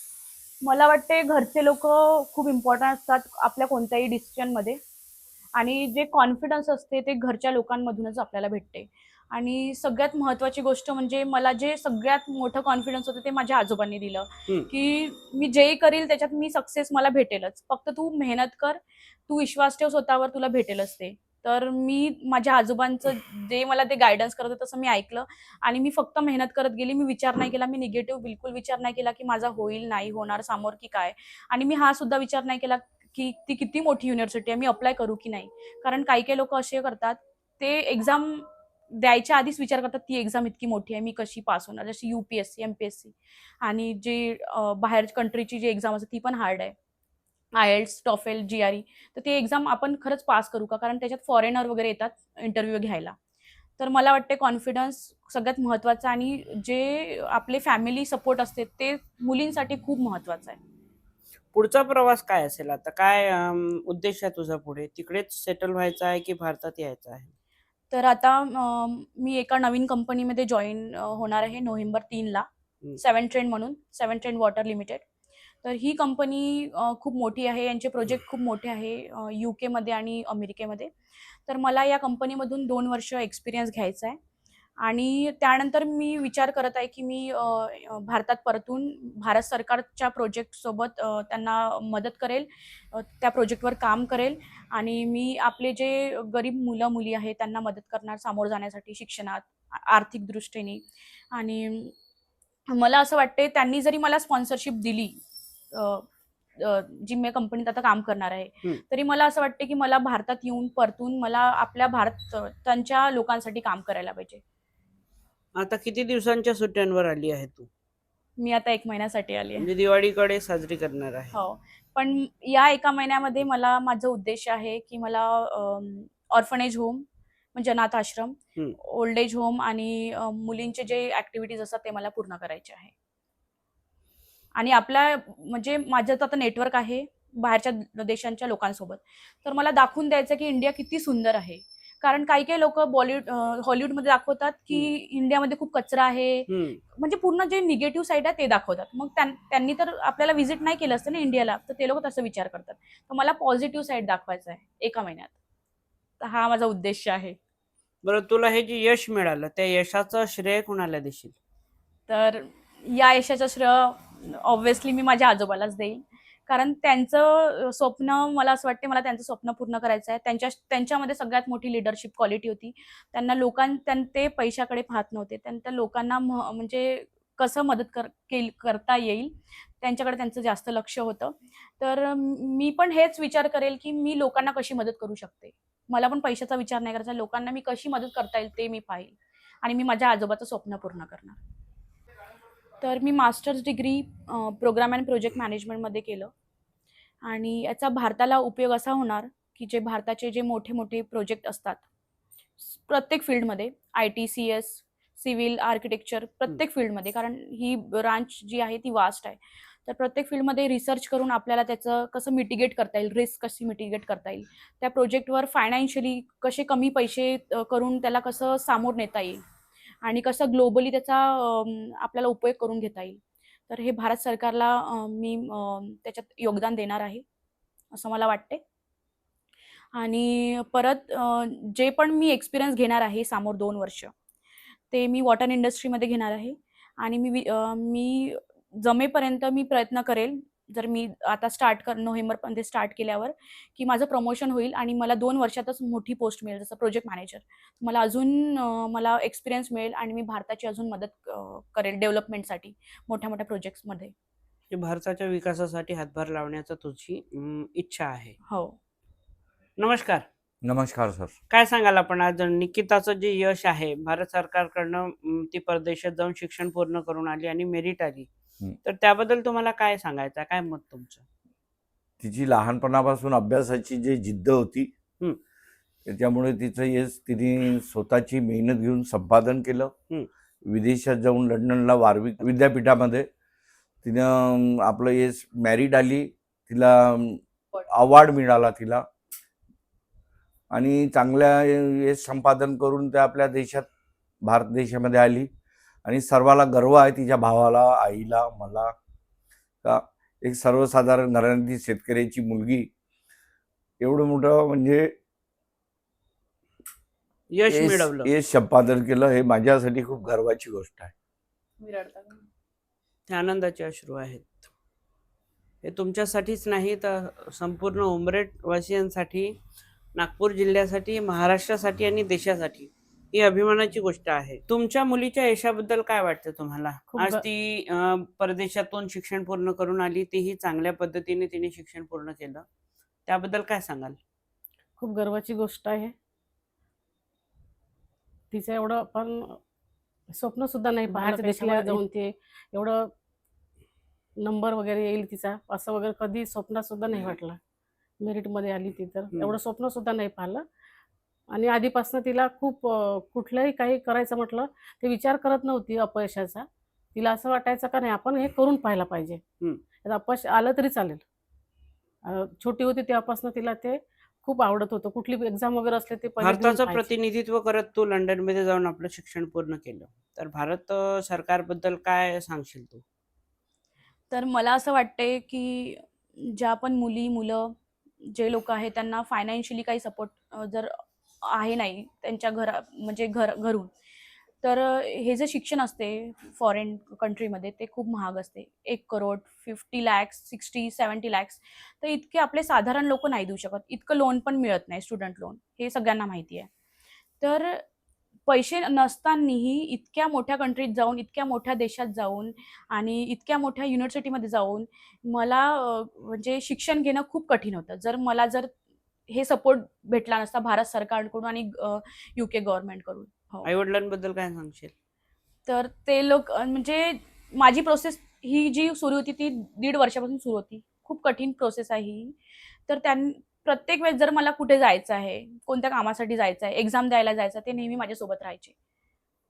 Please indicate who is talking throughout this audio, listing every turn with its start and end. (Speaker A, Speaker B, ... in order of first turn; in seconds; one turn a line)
Speaker A: 0.6-4.8
Speaker A: 5.6-46.7
Speaker A: 47.5-53.1
Speaker A: 53.8-60.6
Speaker B: 61.5-67.3
Speaker A: 67.9-72.5
Speaker A: 73.0-75.0
Speaker A: 75.6-84.2
Speaker A: 84.8-101.9
Speaker A: 102.7-105.2
Speaker A: 105.7-114.4
Speaker B: 115.6-117.7
Speaker A: 118.4-119.7
Speaker B: 119.6-121.3
Speaker A: 121.3-132.9
Speaker A: 134.6-155.3
Speaker B: 146.5-146.8
Speaker A: 156.2-157.4
Speaker B: 158.0-161.4
Speaker A: 162.1-191.4
Speaker A: 192.8-196.3
Speaker A: 197.2-201.8
Speaker A: 202.6-219.4
Speaker A: 220.0-227.2
Speaker A: 227.9-228.6
Speaker A: 229.9-234.1
Speaker A: 234.9-254.1
Speaker B: 254.7-258.4
Speaker A: 258.5-258.8
Speaker B: 259.8-260.2
Speaker C: 260.6-261.4
Speaker B: 261.5-268.3
Speaker B: 268.8-271.2
Speaker C: 272.2-274.9
Speaker C: 276.1-279.9
Speaker C: 280.7-283.2
Speaker C: 284.0-289.0
Speaker C: 290.7-293.9
Speaker C: 294.4-295.5
Speaker C: 296.0-298.9
Speaker C: 299.8-302.9
Speaker C: 304.0-305.1
Speaker B: 307.5-308.3
Speaker C: 307.7-311.1
Speaker A: 311.8-312.4
Speaker B: 313.3-314.6
Speaker B: 315.8-319.5
Speaker B: 320.1-332.6
Speaker D: 327.1-327.4
Speaker B: 333.3-334.2
Speaker D: 335.0-336.1
Speaker D: 338.5-339.6
Speaker D: 340.3-343.0
Speaker B: 341.1-342.0
Speaker D: 344.4-347.6
Speaker D: 348.2-350.6
Speaker D: 351.5-359.4
Speaker D: 360.0-361.2
Speaker D: 362.2-367.0
Speaker B: 366.4-373.0
Speaker A: 374.3-383.9
Speaker A: 384.6-396.7
Speaker A: 397.4-397.8
Speaker A: 398.5-408.7
Speaker A: 409.3-413.7
Speaker B: 413.6-414.9
Speaker A: 415.6-422.4
Speaker A: 422.9-428.7